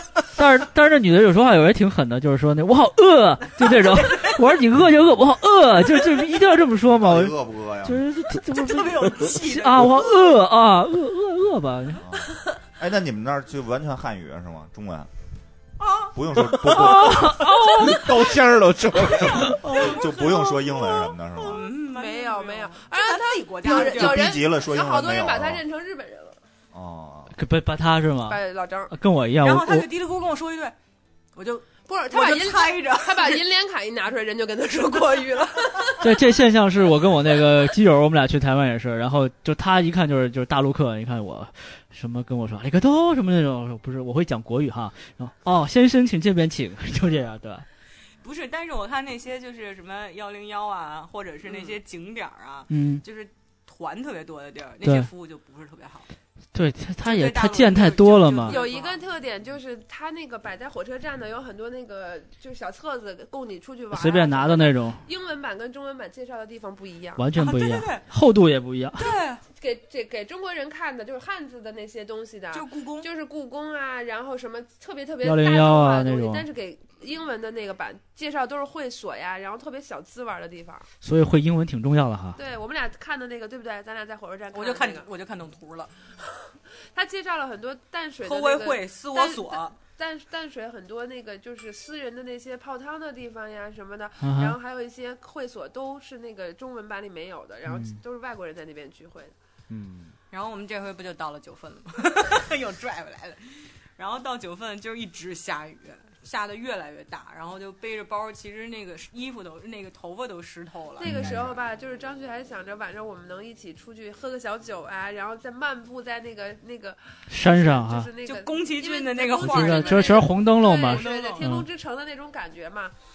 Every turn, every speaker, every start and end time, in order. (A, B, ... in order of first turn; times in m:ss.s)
0:00.4-0:12.0 A
0:03.6-0:04.4 B
0:06.9-0:08.1 C
0:08.5-0:10.4 B
0:12.0-0:15.1 C
0:15.8-0:16.2 B
0:16.1-0:17.5 C
0:16.8-0:19.6 D
0:16.9-0:17.9 A
0:17.8-0:18.2 E
0:19.0-0:21.6 C
0:19.1-0:20.7 B
0:19.8-0:20.9 E
0:21.3-0:24.4 B
0:21.5-0:26.4 E
0:23.7-0:25.6 C
0:26.7-0:27.4 C
0:27.3-0:29.9 A
0:28.2-0:29.0 E
0:29.4-0:30.8 B
0:31.4-0:33.4 B
0:31.9-0:36.2 E
0:36.0-0:47.7 A
0:48.2-0:56.1 B
0:51.4-0:51.8 E
0:52.7-0:53.0 A
0:54.8-0:55.1 A
0:56.5-0:58.6 A
0:57.0-0:59.0 B
0:58.5-1:07.3 E
1:03.9-1:05.0 A
1:07.2-1:09.1 A
1:07.4-1:08.1 B
1:09.0-1:09.4 B
1:09.5-1:20.9 E
1:12.5-1:13.1 B
1:15.2-1:16.4 A
1:21.0-1:22.4 A
1:22.4-1:25.1 E
1:24.5-1:25.9 B
1:26.2-1:39.3 E
1:28.2-1:29.8 B
1:34.2-1:34.6 A
1:37.7-1:38.0 A
1:39.7-1:40.1 A
1:40.3-1:51.4 B
1:51.0-2:03.0 E
1:51.0-1:51.4 A
1:57.3-1:58.1 A
1:58.2-2:01.5 B
1:59.4-2:01.7 A